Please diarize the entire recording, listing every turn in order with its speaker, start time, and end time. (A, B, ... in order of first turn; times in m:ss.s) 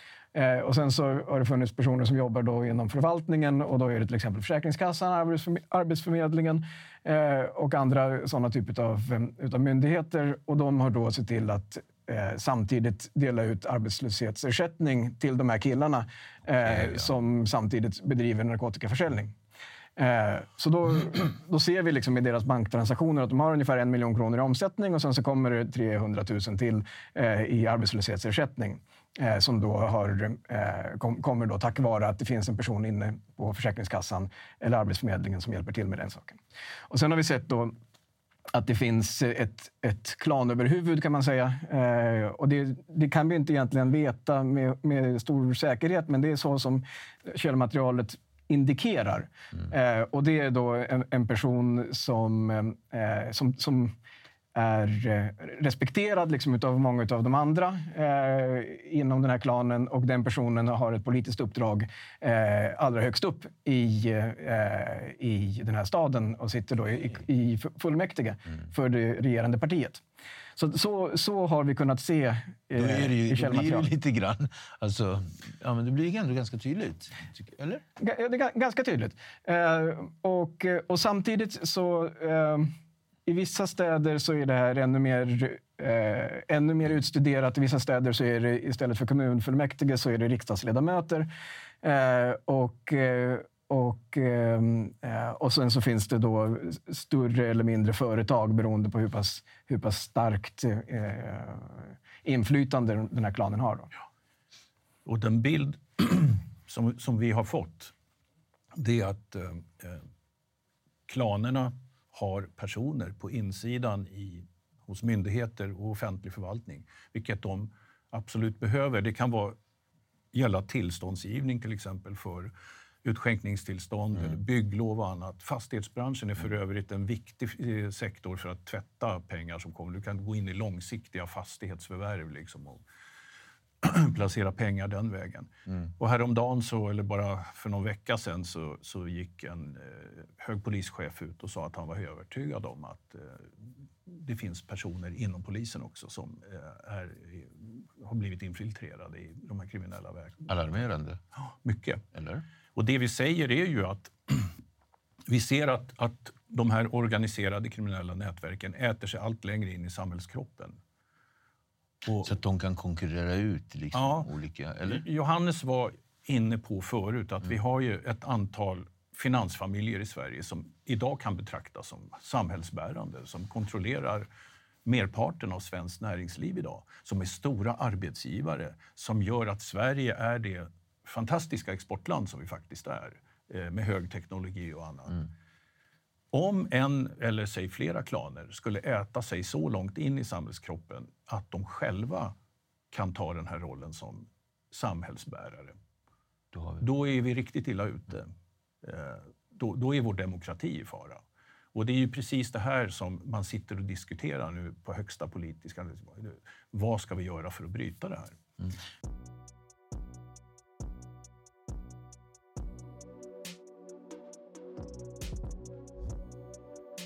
0:00.3-0:19.3 A
0:16.6-0:17.1 B
0:20.0-0:37.7 A
0:38.5-0:53.9 A
0:54.5-1:10.0 A
1:10.6-1:13.9 A
1:12.8-1:17.8 B
1:18.0-1:22.7 A
1:23.2-1:31.3 A
1:31.8-1:43.9 A
1:45.0-1:47.9 C
1:48.8-1:50.0 C
1:51.1-1:59.6 C
2:00.3-2:02.5 C
2:03.0-2:12.8 C
2:13.8-2:23.5 C
2:24.0-2:30.7 C
2:30.5-2:31.2 B
2:31.4-2:32.0 C
2:32.1-2:32.4 B
2:32.8-2:34.5 C
2:35.3-2:40.8 C
2:42.0-2:42.3 C
2:42.2-2:45.0 B
2:43.9-2:44.3 C
2:44.8-2:54.3 C
2:54.8-3:05.3 C
3:06.3-3:12.3 C
3:12.9-3:15.8 C
3:16.5-3:16.8 B
3:16.8-3:18.3 C
3:18.8-3:21.2 C
3:21.7-3:28.4 C